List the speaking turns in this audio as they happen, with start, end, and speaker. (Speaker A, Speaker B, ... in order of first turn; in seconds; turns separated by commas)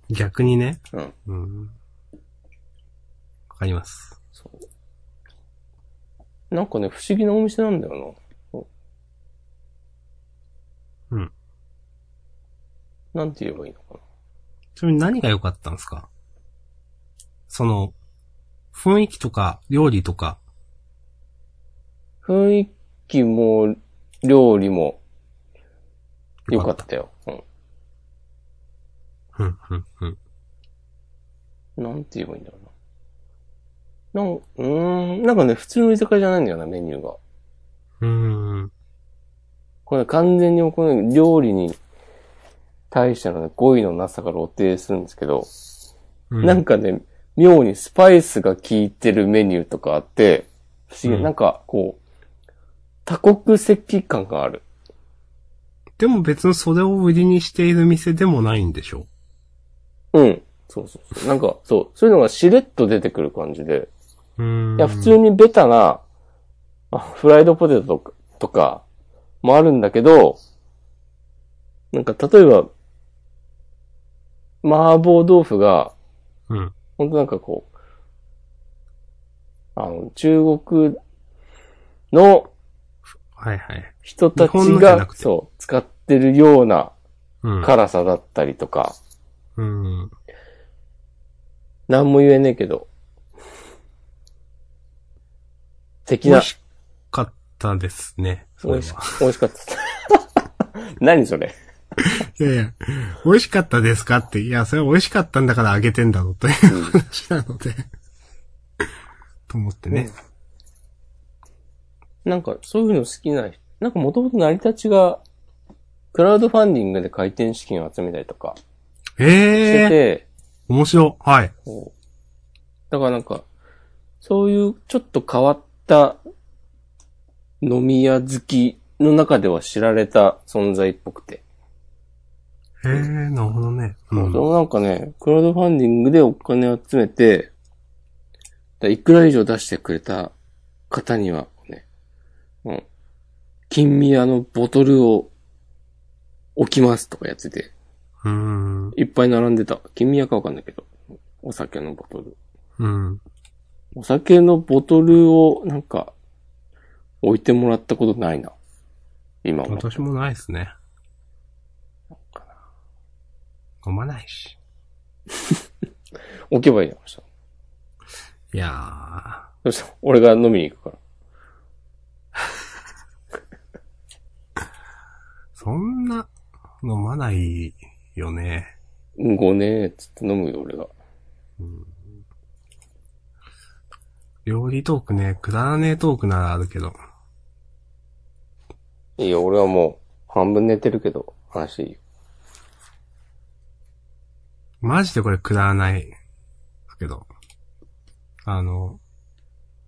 Speaker A: 0.1-1.8, Speaker A: 3.5-4.2, Speaker B: 6.5-8.7, Speaker B: 13.1-14.0, Speaker A: 14.8-16.1, Speaker A: 17.5-17.9, Speaker A: 18.7-20.4, Speaker B: 22.2-25.0, Speaker A: 26.5-26.8, Speaker B: 26.5-27.4, Speaker A: 29.4-30.2, Speaker B: 31.8-32.7, Speaker B: 34.1-37.2, Speaker A: 38.0-38.7, Speaker B: 39.9-41.8, Speaker B: 42.9-45.5, Speaker A: 46.3-46.6, Speaker B: 46.4-52.0, Speaker B: 53.1-54.6, Speaker A: 56.0-59.1, Speaker B: 60.1-63.9, Speaker A: 64.4-65.2, Speaker B: 64.8-66.0, Speaker B: 66.9-68.8, Speaker B: 69.4-70.4, Speaker B: 71.9-72.7, Speaker B: 74.6-75.9, Speaker A: 76.5-76.8, Speaker B: 77.0-77.7, Speaker B: 79.8-81.0, Speaker B: 82.1-82.5, Speaker A: 83.4-85.2, Speaker B: 84.0-86.9, Speaker A: 87.4-87.7, Speaker B: 87.6-89.0, Speaker A: 89.6-90.1, Speaker B: 91.9-92.9, Speaker B: 96.1-96.5, Speaker A: 96.2-96.6, Speaker A: 97.1-99.1, Speaker B: 98.6-100.2, Speaker B: 101.0-101.5, Speaker A: 102.0-107.9, Speaker B: 106.7-107.0, Speaker A: 109.5-110.1, Speaker B: 112.2-115.2, Speaker B: 116.1-118.6, Speaker A: 119.2-120.0, Speaker B: 119.6-120.3, Speaker A: 120.7-121.5, Speaker B: 121.7-121.9, Speaker B: 122.9-123.5, Speaker B: 124.2-126.2, Speaker B: 127.6-131.4, Speaker A: 132.8-134.4, Speaker B: 134.2-137.5, Speaker B: 138.8-140.3, Speaker B: 140.9-141.8, Speaker B: 143.7-145.3, Speaker B: 146.6-147.7, Speaker A: 148.2-149.0, Speaker B: 149.0-150.9, Speaker B: 151.4-152.4, Speaker A: 152.8-153.2, Speaker B: 153.9-156.1, Speaker B: 157.2-158.5, Speaker B: 159.4-160.0, Speaker A: 159.7-160.7, Speaker A: 163.8-164.6, Speaker B: 166.5-167.2, Speaker A: 168.5-169.5, Speaker B: 169.6-171.0, Speaker A: 175.6-176.3, Speaker A: 176.8-178.7, Speaker B: 179.2-180.9, Speaker A: 181.6-182.0, Speaker A: 184.5-186.9, Speaker B: 189.2-192.0, Speaker A: 194.8-196.1, Speaker A: 196.9-197.3, Speaker A: 198.5-199.0